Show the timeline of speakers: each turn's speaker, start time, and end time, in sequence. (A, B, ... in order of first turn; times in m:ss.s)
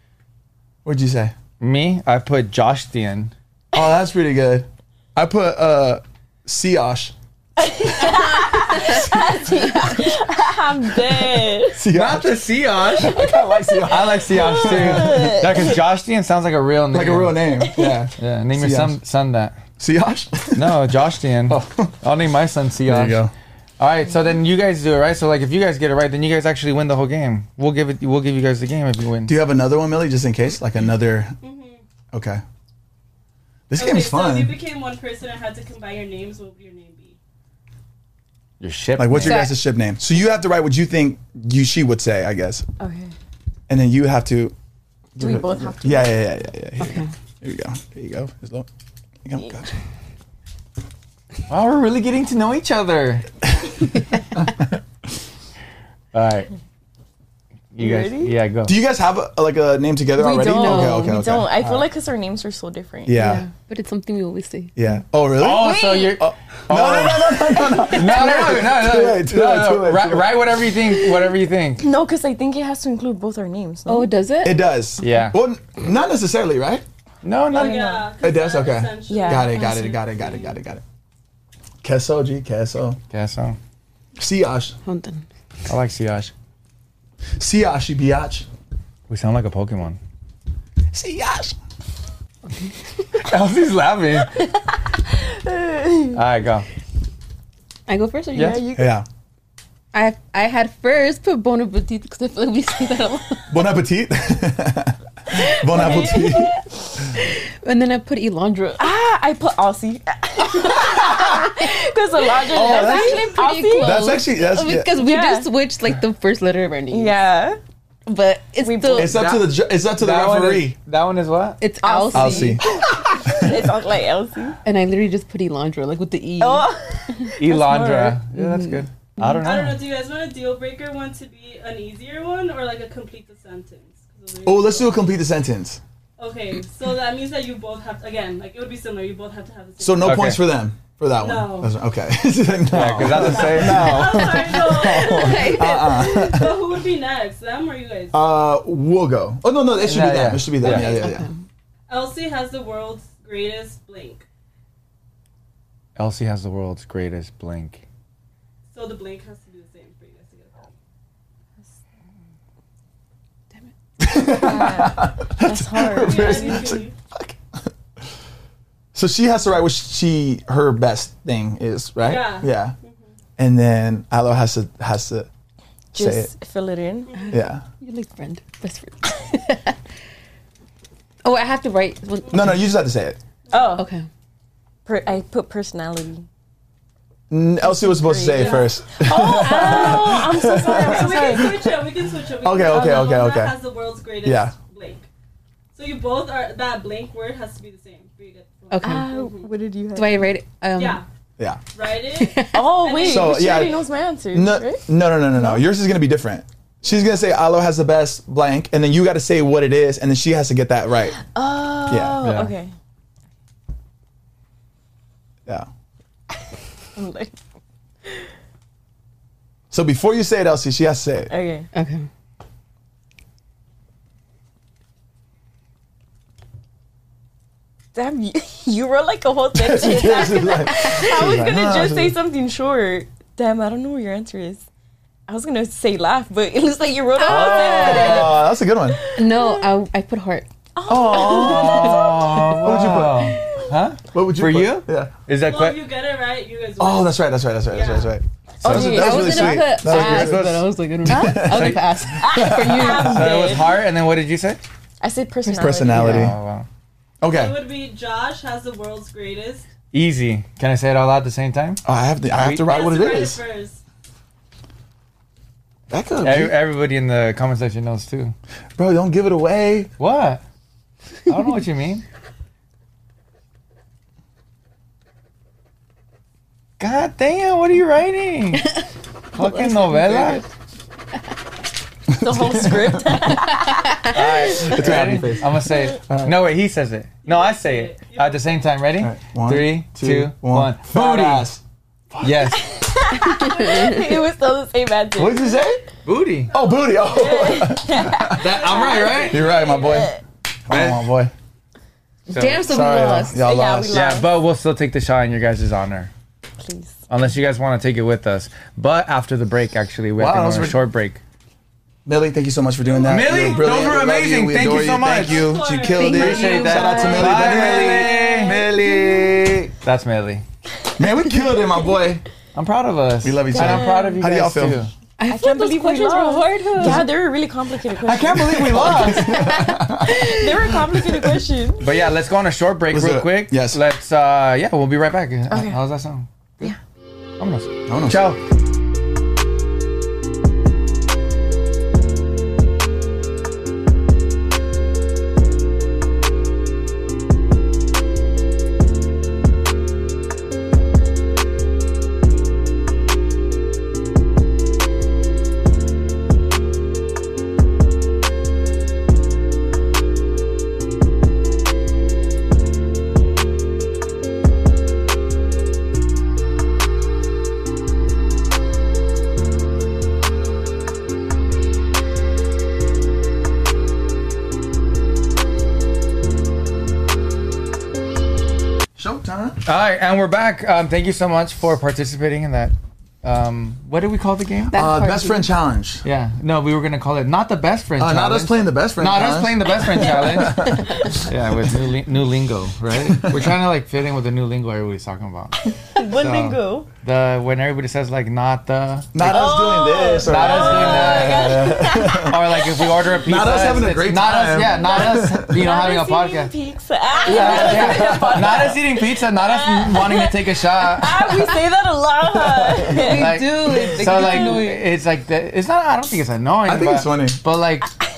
0:00.8-0:01.4 A
0:01.6-0:03.3 B
0:03.7-0:07.1 A
0:07.6-0:11.8 C
0:08.7-0:10.0 D
0:11.6-0:12.4 A
0:11.9-0:13.3 B
0:13.0-0:15.8 A
0:13.9-0:17.5 B
0:14.3-0:15.8 C
0:16.9-0:19.0 A
0:17.6-0:18.0 C
0:18.2-0:19.6 B
0:19.8-0:20.8 A
0:20.6-0:23.2 B
0:21.5-0:22.0 A
0:22.8-0:23.3 A
0:23.8-0:29.4 B
0:29.3-0:31.4 A
0:31.4-0:31.8 E
0:32.1-0:32.4 A
0:33.7-0:34.6 A
0:33.7-0:37.2 E
0:38.6-0:39.6 B
0:39.0-0:42.7 A
0:39.2-0:39.6 D
0:42.8-0:43.1 C
0:43.7-0:44.6 A
0:45.2-0:48.7 A
0:45.2-0:46.2 C
0:46.8-0:47.1 D
0:49.2-0:49.7 A
0:51.5-0:53.3 B
0:54.5-0:54.7 A
0:56.1-0:56.5 B
0:57.7-0:58.8 B
0:57.8-0:58.4 C
0:58.7-1:01.9 A
1:00.2-1:03.2 C
1:00.5-1:01.2 D
1:03.1-1:03.4 A
1:03.2-1:04.7 D
1:04.8-1:10.4 A
1:05.4-1:11.9 B
1:05.5-1:06.2 C
1:11.0-1:11.3 C
1:11.8-1:14.1 C
1:13.9-1:14.6 D
1:14.4-1:16.8 A
1:15.0-1:15.4 B
1:17.2-1:18.1 B
1:17.5-1:19.7 E
1:17.6-1:17.8 C
1:18.2-1:20.8 A
1:19.1-1:20.0 C
1:19.6-1:19.9 D
1:21.8-1:23.0 A
1:23.1-1:23.6 B
1:24.2-1:24.8 A
1:24.8-1:25.2 D
1:25.7-1:26.3 B
1:27.4-1:28.5 A
1:29.1-1:30.0 B
1:30.9-1:31.6 A
1:33.2-1:34.3 B
1:35.1-1:36.2 C
1:36.1-1:36.7 B
1:37.9-1:38.6 D
1:38.4-1:38.9 C
1:38.7-1:39.1 A
1:39.9-1:43.5 D
1:43.5-1:46.5 A
1:45.6-1:46.6 C
1:45.7-1:48.9 D
1:48.8-1:54.2 C
1:50.8-1:57.2 D
1:52.5-1:54.9 A
1:55.0-1:55.5 C
1:56.9-1:57.6 C
1:58.1-1:59.2 D
1:58.6-1:59.2 C
1:58.9-2:00.8 A
1:59.1-2:01.6 B
2:01.6-2:03.4 D
2:01.8-2:04.6 C
2:02.1-2:03.6 A
2:04.6-2:07.4 D
2:06.4-2:08.2 C
2:07.4-2:09.8 B
2:08.3-2:09.5 D
2:09.4-2:15.1 E
2:14.4-2:15.8 A
2:16.2-2:20.3 E
2:19.8-2:26.6 A
2:20.0-2:20.4 B
2:21.2-2:21.7 E
2:22.7-2:24.2 B
2:22.9-2:28.2 E
2:24.7-2:26.3 D
2:28.1-2:31.3 A
2:29.8-2:31.0 B
2:30.6-2:31.4 D
2:31.9-2:34.2 E
2:36.0-2:37.8 B
2:38.7-2:40.7 E
2:44.0-2:47.7 A
2:44.3-2:46.8 C
2:46.0-2:47.0 E
2:49.0-2:52.8 A
2:52.0-2:53.1 E
2:53.4-2:55.3 A
2:55.9-2:57.2 C
2:56.0-2:56.3 A
2:57.2-2:59.8 D
2:57.3-2:57.6 A
3:01.2-3:02.7 D
3:02.3-3:03.2 A
3:03.5-3:03.8 E
3:03.5-3:03.9 C
3:03.7-3:04.1 D
3:04.9-3:06.3 C
3:07.3-3:13.6 A
3:07.8-3:11.7 C
3:09.7-3:15.1 E
3:14.2-3:14.6 A
3:15.7-3:19.5 E
3:18.7-3:19.1 D
3:18.8-3:20.3 C
3:20.0-3:21.0 D
3:20.8-3:21.0 E
3:21.7-3:23.7 E
3:22.2-3:22.6 D
3:22.5-3:24.8 C
3:23.0-3:23.8 A
3:24.3-3:31.2 A
3:31.2-3:32.7 C
3:31.9-3:32.2 A
3:32.2-3:32.5 B
3:37.0-3:37.4 C
3:39.7-3:41.3 A
3:41.3-3:41.7 C
3:41.7-3:42.1 D
3:48.0-3:54.6 C
3:49.6-3:52.2 A
3:55.3-3:59.7 C
3:57.2-3:58.4 D
3:57.3-3:59.0 A
3:59.2-4:00.5 D
4:00.8-4:02.5 C
4:00.9-4:03.4 A
4:01.2-4:05.8 B
4:01.4-4:02.4 D
4:04.1-4:05.1 A
4:05.4-4:07.2 E
4:06.8-4:13.5 A
4:07.7-4:08.2 E
4:08.6-4:10.4 C
4:08.6-4:13.3 D
4:09.8-4:10.5 B
4:11.1-4:11.4 C
4:11.3-4:11.8 B
4:12.2-4:13.8 C
4:13.0-4:14.6 B
4:15.0-4:16.3 C
4:15.5-4:15.8 D
4:15.5-4:16.4 A
4:15.9-4:16.7 B
4:17.2-4:17.6 A
4:17.3-4:19.7 E
4:19.9-4:22.7 B
4:21.8-4:23.4 A
4:22.5-4:23.8 E
4:25.9-4:26.6 A
4:26.2-4:28.4 B
4:28.8-4:29.9 A
4:30.0-4:30.4 B
4:31.3-4:32.0 B
4:36.8-4:38.7 B
4:39.3-4:40.4 B
4:39.4-4:40.3 D
4:42.1-4:43.4 A
4:42.1-4:44.1 C
4:43.3-4:44.2 D
4:44.1-4:51.5 B
4:44.6-4:46.4 A
4:47.2-4:48.5 E
4:49.0-4:51.6 A
4:52.1-4:52.4 A
4:52.2-4:52.7 B
4:52.4-4:55.6 C
4:53.2-4:54.2 D
4:55.2-4:55.8 A
4:56.0-4:56.5 B
4:56.5-4:58.6 A
4:57.0-5:00.2 C
4:58.4-4:59.5 B
4:58.7-4:59.3 E
4:59.3-5:00.1 A
5:00.7-5:01.3 A
5:00.7-5:01.1 B
5:02.3-5:02.6 B
5:02.3-5:03.4 D
5:02.6-5:04.0 A
5:03.4-5:04.3 C
5:03.9-5:06.1 B
5:06.6-5:07.0 C
5:07.1-5:11.2 B
5:10.2-5:10.8 A
5:12.1-5:19.7 A
5:12.8-5:14.0 E
5:13.0-5:18.7 B
5:14.9-5:17.1 E
5:15.9-5:17.9 D
5:17.9-5:18.6 C
5:19.8-5:20.4 B
5:21.0-5:22.2 A
5:22.6-5:24.9 B
5:23.2-5:24.8 A
5:23.5-5:24.2 C
5:25.2-5:27.1 D
5:25.3-5:31.9 C
5:26.8-5:27.1 A
5:28.0-5:29.4 B
5:28.1-5:31.4 A
5:29.6-5:30.5 D
5:31.8-5:36.8 B
5:32.9-5:33.8 A
5:35.5-5:35.8 C
5:37.4-5:38.4 B
5:37.9-5:38.3 A
6:19.0-6:19.6 A
6:19.6-6:24.8 B
6:24.7-6:25.5 D
6:24.7-6:26.0 A
6:26.0-6:39.5 B
6:28.0-6:31.2 A
6:30.4-6:31.2 C
6:32.9-6:33.5 A
6:35.7-6:36.9 C
6:39.1-6:42.4 A
6:39.2-6:43.0 C
6:40.2-6:46.5 B
6:43.2-6:45.6 A
6:44.6-6:54.6 C
6:47.3-6:51.4 B
6:47.3-6:48.2 D
6:47.4-6:48.4 A
6:52.4-6:53.1 A
6:52.9-6:54.9 D
6:53.0-6:57.9 B
6:56.7-6:57.4 A